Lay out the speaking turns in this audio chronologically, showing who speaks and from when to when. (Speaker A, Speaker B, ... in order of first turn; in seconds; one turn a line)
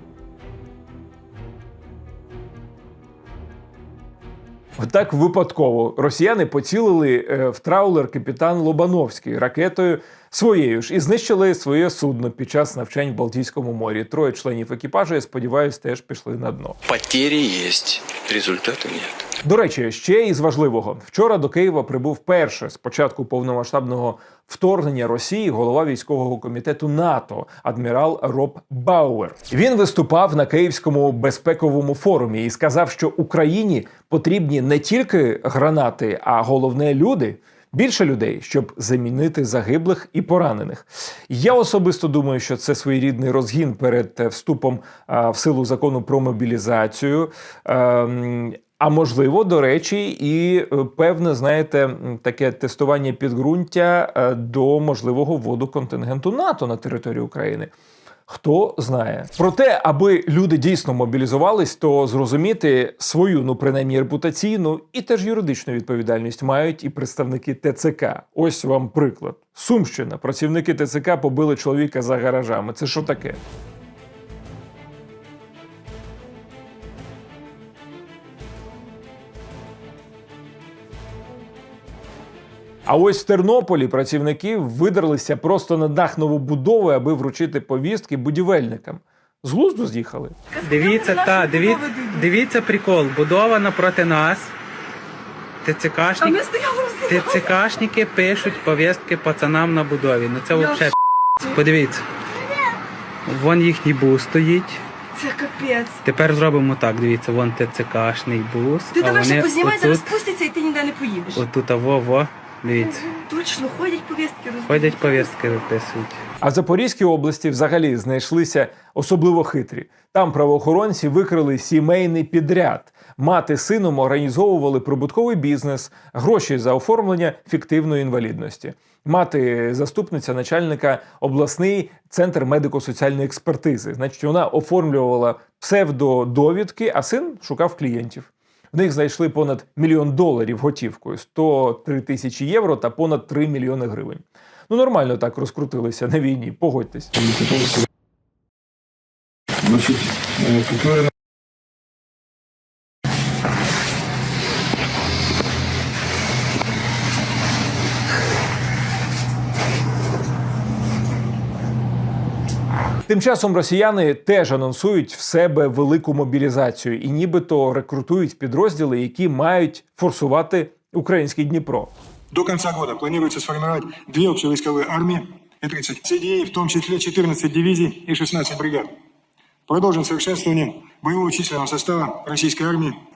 Speaker A: 4.8-16.8
Speaker B: 16.9-19.2
Speaker A: 19.4-57.7
Speaker A: 58.3-73.4
Speaker A: 82.9-90.4
Speaker C: 90.6-94.5
Speaker D: 91.7-92.1
Speaker C: 95.6-96.4
Speaker D: 96.4-97.2
Speaker C: 97.0-102.0
Speaker C: 103.3-104.8
Speaker D: 105.2-105.9
Speaker C: 106.0-110.2
Speaker D: 109.2-111.4
Speaker C: 111.3-113.1
Speaker D: 113.2-115.1
Speaker C: 114.7-116.2
Speaker A: 116.4-147.1
Speaker A: 163.1-171.9
Speaker E: 172.3-178.9
Speaker E: 179.7-182.9